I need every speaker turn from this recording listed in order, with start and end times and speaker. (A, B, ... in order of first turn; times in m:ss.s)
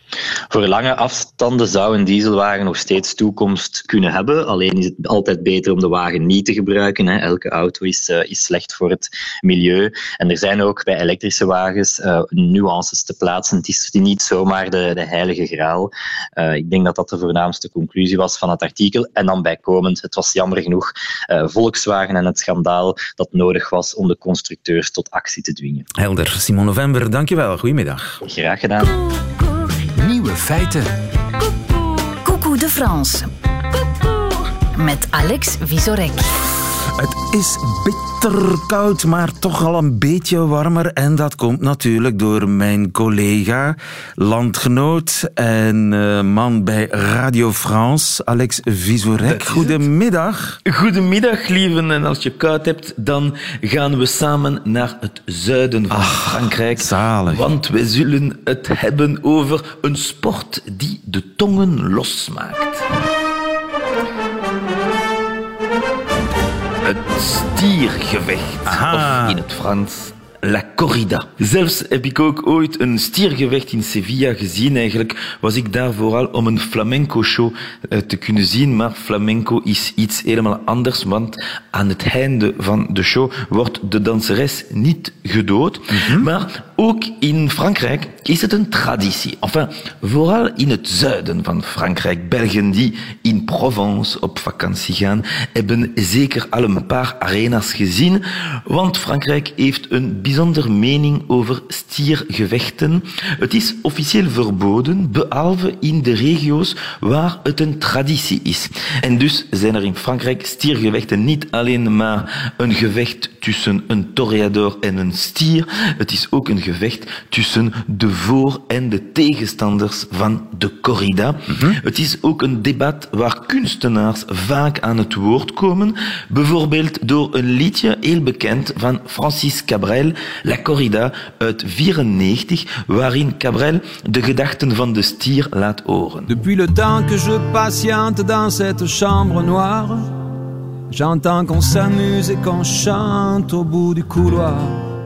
0:00.5-0:25.9 A
0:26.0-0:28.2 B
0:28.2-0:29.0 A
0:30.0-0:30.9 B
0:32.2-0:33.3 C
0:34.8-0:36.3 C
0:37.0-0:50.6 B
0:49.2-0:49.8 D
0:50.6-1:02.8 D
0:55.9-0:57.4 B
1:06.8-2:16.3 D
1:08.6-1:09.4 B
1:25.9-1:26.3 B
2:01.5-2:01.8 B
2:16.3-2:20.1 E
2:20.9-2:24.8 E